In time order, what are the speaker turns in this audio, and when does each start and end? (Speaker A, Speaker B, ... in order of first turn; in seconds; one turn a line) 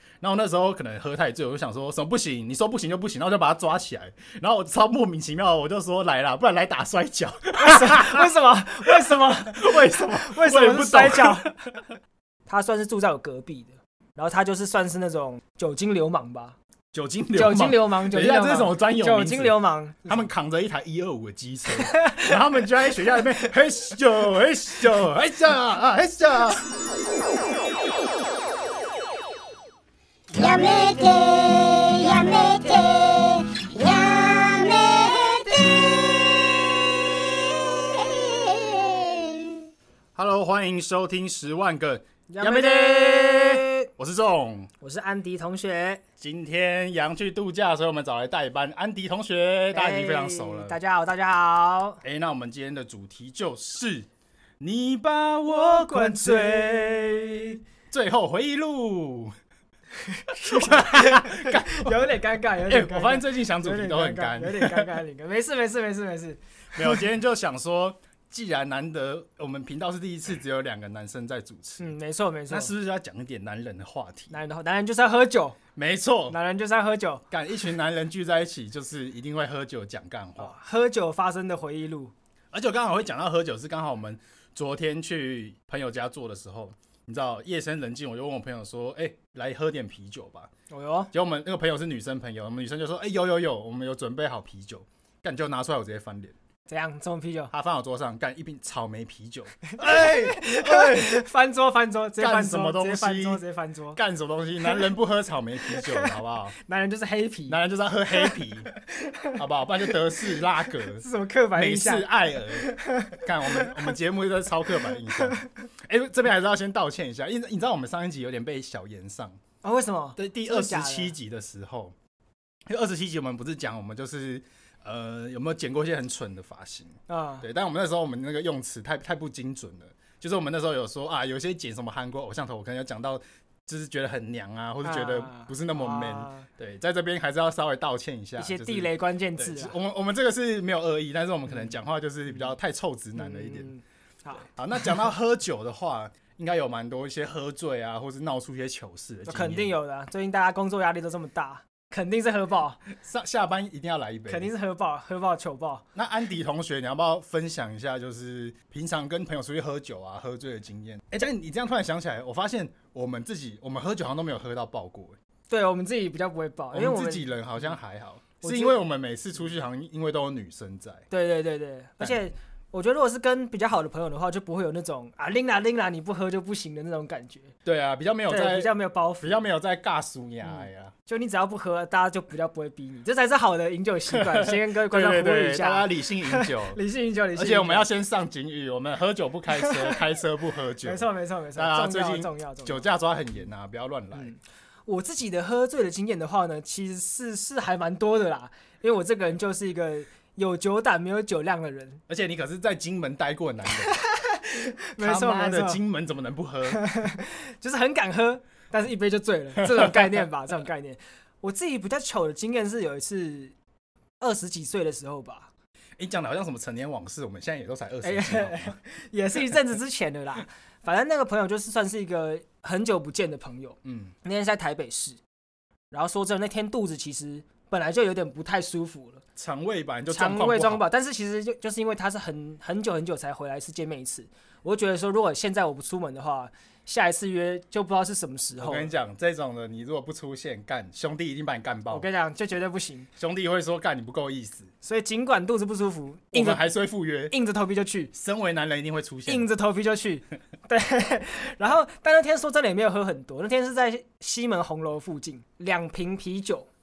Speaker A: 0.2-8.3
Speaker B: 7.6-11.5
Speaker A: 9.0-11.9
Speaker B: 12.5-16.6
Speaker A: 16.9-26.6
Speaker B: 17.3-20.2
Speaker B: 21.9-22.3
Speaker C: 30.3-39.6
Speaker A: 40.1-44.7
Speaker B: 42.3-43.9
Speaker B: 44.8-46.0
Speaker A: 46.2-50.8
Speaker B: 49.7-52.0
Speaker A: 52.0-54.1
Speaker A: 54.6-59.3
Speaker B: 55.5-57.4
Speaker B: 60.0-67.0
Speaker A: 60.4-62.1
Speaker A: 62.7-65.0
Speaker A: 66.7-71.9
Speaker B: 71.8-72.7
Speaker A: 72.5-74.3
Speaker B: 74.3-75.6
Speaker A: 75.7-76.4
Speaker B: 76.3-77.2
Speaker A: 77.3-80.5
Speaker B: 80.4-82.1
Speaker A: 82.5-90.5
Speaker B: 90.7-91.1
Speaker A: 91.1-96.3
Speaker B: 96.7-97.5
Speaker A: 97.5-101.2
Speaker B: 99.7-104.0
Speaker A: 102.2-103.4
Speaker A: 103.9-106.5
Speaker B: 105.7-107.6
Speaker A: 107.5-108.7
Speaker B: 109.0-109.4
Speaker A: 109.3-119.4
Speaker B: 110.9-113.8
Speaker B: 119.6-121.1
Speaker A: 120.2-121.9
Speaker A: 122.7-143.7
Speaker B: 127.1-127.5
Speaker B: 134.8-136.5
Speaker B: 138.4-139.8
Speaker B: 143.2-144.5
Speaker A: 144.4-149.7
Speaker B: 149.3-152.8
Speaker A: 152.9-154.5
Speaker B: 154.3-155.8
Speaker A: 155.9-165.2
Speaker B: 165.5-167.3
Speaker A: 166.7-171.1
Speaker B: 168.4-168.8
Speaker B: 171.1-177.5
Speaker A: 172.0-172.3
Speaker A: 177.6-180.9
Speaker B: 178.3-179.4
Speaker B: 180.4-187.8
Speaker A: 184.1-186.8
Speaker A: 187.3-194.3
Speaker B: 189.6-189.9
Speaker B: 190.8-192.8
Speaker B: 194.1-202.0
Speaker A: 202.1-204.0
Speaker B: 203.8-205.8
Speaker A: 205.0-206.9
Speaker B: 206.7-213.5
Speaker A: 209.8-210.0
Speaker B: 214.2-215.5
Speaker A: 216.0-218.8
Speaker B: 218.0-225.2
Speaker A: 223.8-224.1
Speaker B: 225.9-229.2
Speaker A: 229.3-230.8
Speaker B: 230.1-238.9
Speaker A: 238.6-242.1
Speaker B: 241.9-243.1
Speaker A: 243.2-244.7
Speaker B: 244.8-246.7
Speaker A: 246.3-247.3
Speaker B: 247.3-248.1
Speaker A: 248.1-249.5
Speaker B: 249.2-256.7